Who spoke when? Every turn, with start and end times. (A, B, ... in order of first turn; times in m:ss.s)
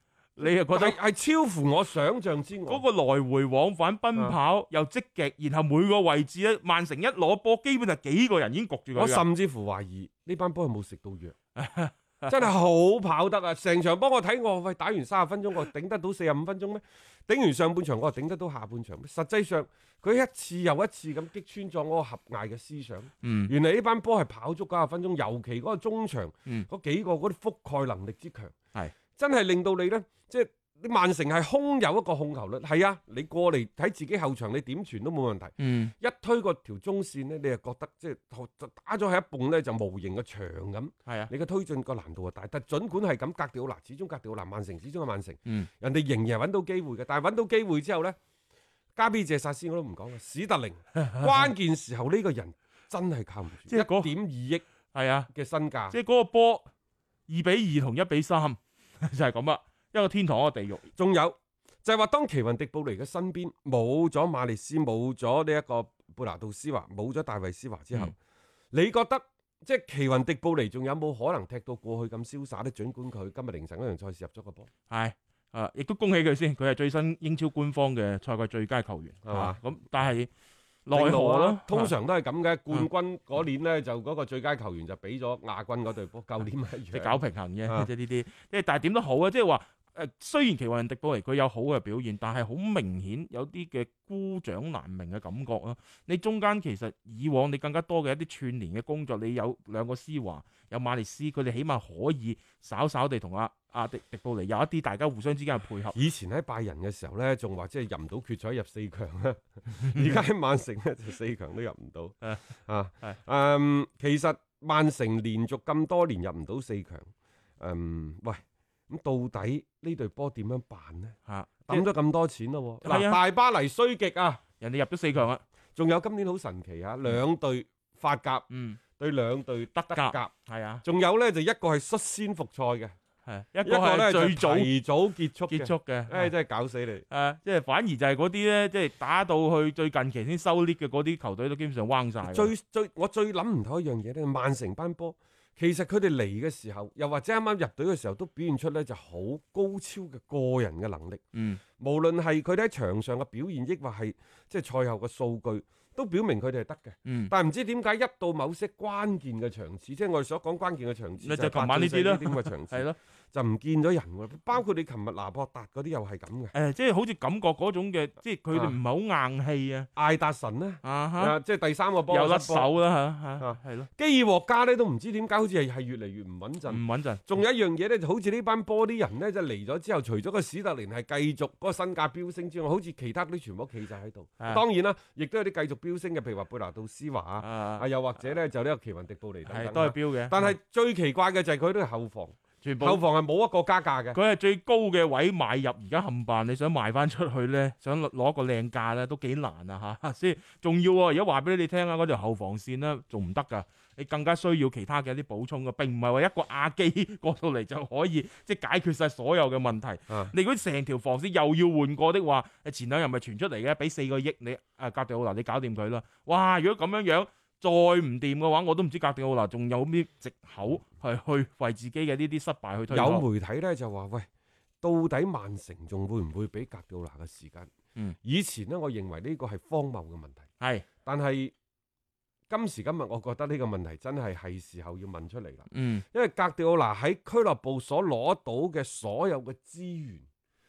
0:00.4-0:01.0 A
0:00.4-0:02.8 B
0:02.7-0:09.2 A
0:08.9-0:11.3 B
0:11.6-0:12.4 A
0:12.3-0:28.5 B
0:23.2-0:23.5 A
0:29.1-0:48.2 B
0:35.6-0:35.9 A
0:49.0-0:54.6 B
0:51.0-0:51.4 A
0:53.7-0:54.1 A
0:54.9-0:55.3 A
0:55.3-0:56.0 B
0:55.9-0:56.7 A
0:57.3-1:00.9 A
1:01.0-1:08.1 B
1:08.7-1:14.7 B
1:14.9-1:20.3 A
1:19.2-1:19.6 B
1:20.8-1:21.9 A
1:20.9-1:27.9 B
1:26.9-1:45.9 A
1:45.9-2:01.1 B
1:49.8-1:50.2 A
2:01.3-2:01.8 A
2:01.7-2:04.4 B
2:02.8-2:03.2 A
2:04.6-2:05.4 A
2:05.8-2:08.4 B
2:08.5-2:08.8 A
2:09.0-2:10.3 B
2:09.7-2:10.8 A
2:10.8-2:12.9 B
2:13.2-2:14.7 A
2:13.6-2:17.0 B
2:15.5-2:16.3 A
2:17.1-2:22.5 A
2:22.2-2:31.2 B
2:31.3-2:31.6 A
2:31.8-2:46.5 B
2:37.0-2:37.3 A
2:41.2-2:43.0 A
2:46.5-2:49.9 A
2:50.0-2:52.7 B
2:50.8-2:51.4 A
2:52.1-2:53.9 A
2:53.4-3:14.2 B
2:56.7-2:57.2 A
3:07.4-3:07.8 A
3:09.4-3:10.5 A
3:12.6-3:13.0 A
3:14.1-3:43.2 A
3:30.1-3:30.3 B
3:42.9-3:44.3 B
3:44.8-3:47.7 B
3:48.2-3:50.4 B
3:50.6-3:50.8 A
3:51.0-3:51.5 B
3:52.5-4:00.2 B
3:55.7-3:56.0 A